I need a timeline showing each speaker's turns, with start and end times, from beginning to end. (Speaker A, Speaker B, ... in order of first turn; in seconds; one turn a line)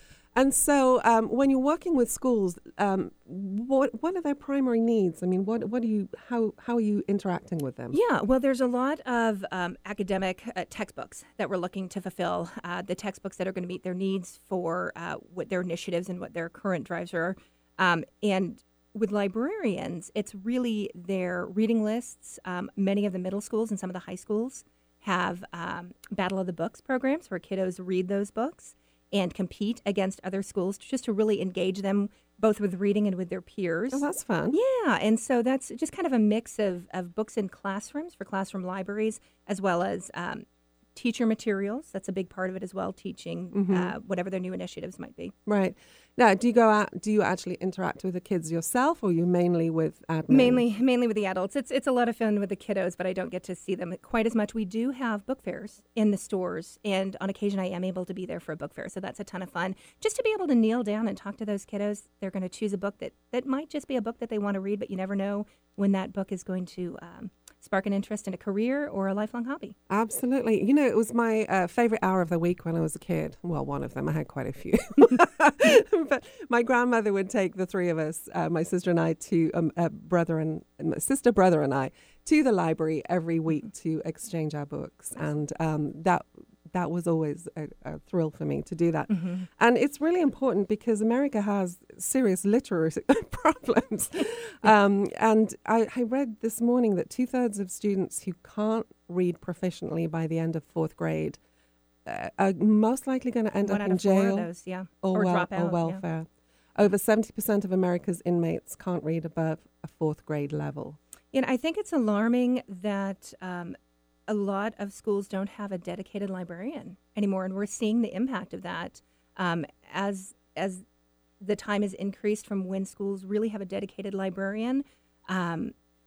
Speaker A: 0.3-8.0
Speaker B: 7.9-45.4
Speaker A: 33.9-34.6
Speaker A: 43.5-43.9
Speaker A: 45.5-50.6
Speaker B: 50.3-69.8
Speaker A: 69.9-101.4
Speaker B: 89.1-89.5
Speaker A: 102.0-104.5
Speaker B: 103.6-106.0
Speaker A: 105.0-111.0
Speaker B: 111.3-113.8
Speaker B: 114.3-120.8
Speaker B: 121.4-125.7